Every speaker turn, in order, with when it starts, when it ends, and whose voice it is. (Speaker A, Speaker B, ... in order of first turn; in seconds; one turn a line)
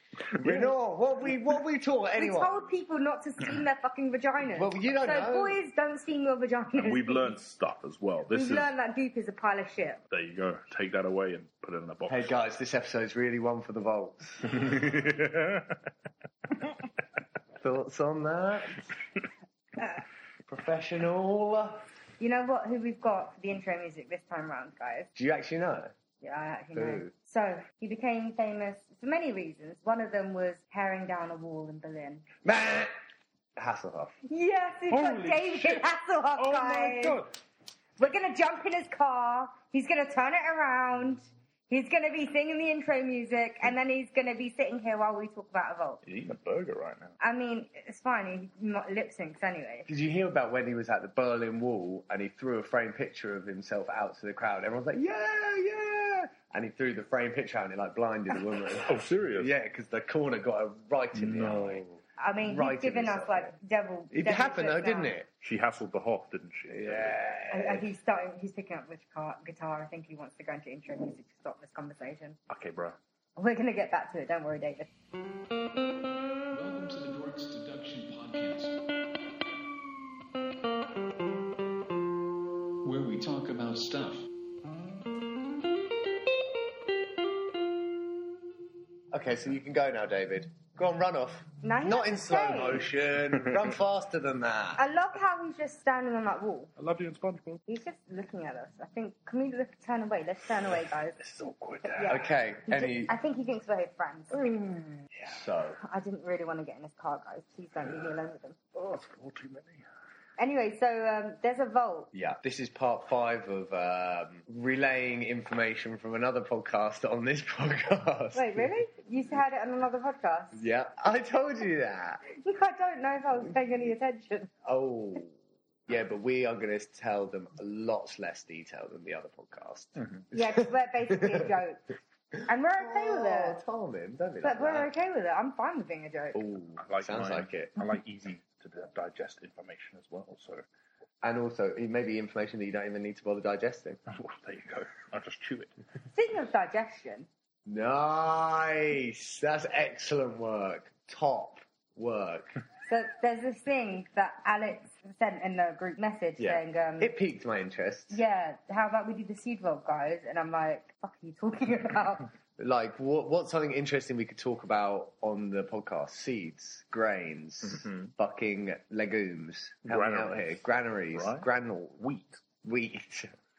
Speaker A: 0.4-2.7
Speaker B: 2.2-7.3
Speaker A: 4.5-5.6
Speaker C: 6.8-8.7
Speaker B: 8.3-10.0
Speaker C: 10.1-12.4
Speaker A: 12.1-15.1
Speaker A: 17.6-18.8
Speaker A: 20.5-21.9
Speaker B: 22.2-25.1
Speaker A: 25.1-25.9
Speaker B: 26.2-32.3
Speaker A: 26.8-27.1
Speaker A: 32.4-32.9
Speaker A: 33.6-34.1
Speaker B: 34.3-37.2
Speaker C: 34.9-37.3
Speaker B: 38.0-46.0
Speaker C: 46.0-47.1
Speaker B: 47.2-49.9
Speaker A: 49.9-61.8
Speaker C: 58.8-59.5
Speaker C: 61.1-62.0
Speaker B: 62.2-65.1
Speaker A: 62.4-63.5
Speaker A: 64.1-65.3
Speaker C: 65.4-67.2
Speaker A: 66.7-67.9
Speaker B: 67.5-72.4
Speaker C: 72.5-73.0
Speaker B: 73.4-74.9
Speaker D: 76.5-78.8
Speaker D: 82.8-84.3
Speaker A: 89.1-94.8
Speaker B: 91.6-92.9
Speaker B: 94.8-96.7
Speaker C: 96.8-97.6
Speaker B: 97.7-101.2
Speaker C: 101.2-102.3
Speaker B: 101.8-105.1
Speaker A: 102.1-103.1
Speaker A: 105.2-105.8
Speaker B: 105.8-108.6
Speaker C: 108.7-109.8
Speaker B: 110.4-112.1
Speaker A: 112.1-118.7
Speaker B: 118.3-120.7
Speaker A: 120.5-122.2
Speaker B: 122.3-124.5
Speaker A: 124.7-125.3
Speaker A: 125.9-131.4
Speaker B: 130.3-131.8
Speaker A: 132.3-134.9
Speaker B: 132.5-133.6
Speaker B: 134.4-136.4
Speaker A: 136.3-137.7
Speaker C: 136.8-140.7
Speaker A: 141.2-144.0
Speaker C: 144.1-145.7
Speaker B: 146.1-147.3
Speaker A: 147.7-152.6
Speaker B: 152.9-157.1
Speaker A: 156.4-158.2
Speaker B: 158.1-162.3
Speaker A: 162.6-172.0
Speaker C: 167.7-168.1
Speaker C: 169.9-171.5
Speaker C: 172.0-172.4
Speaker A: 172.6-173.3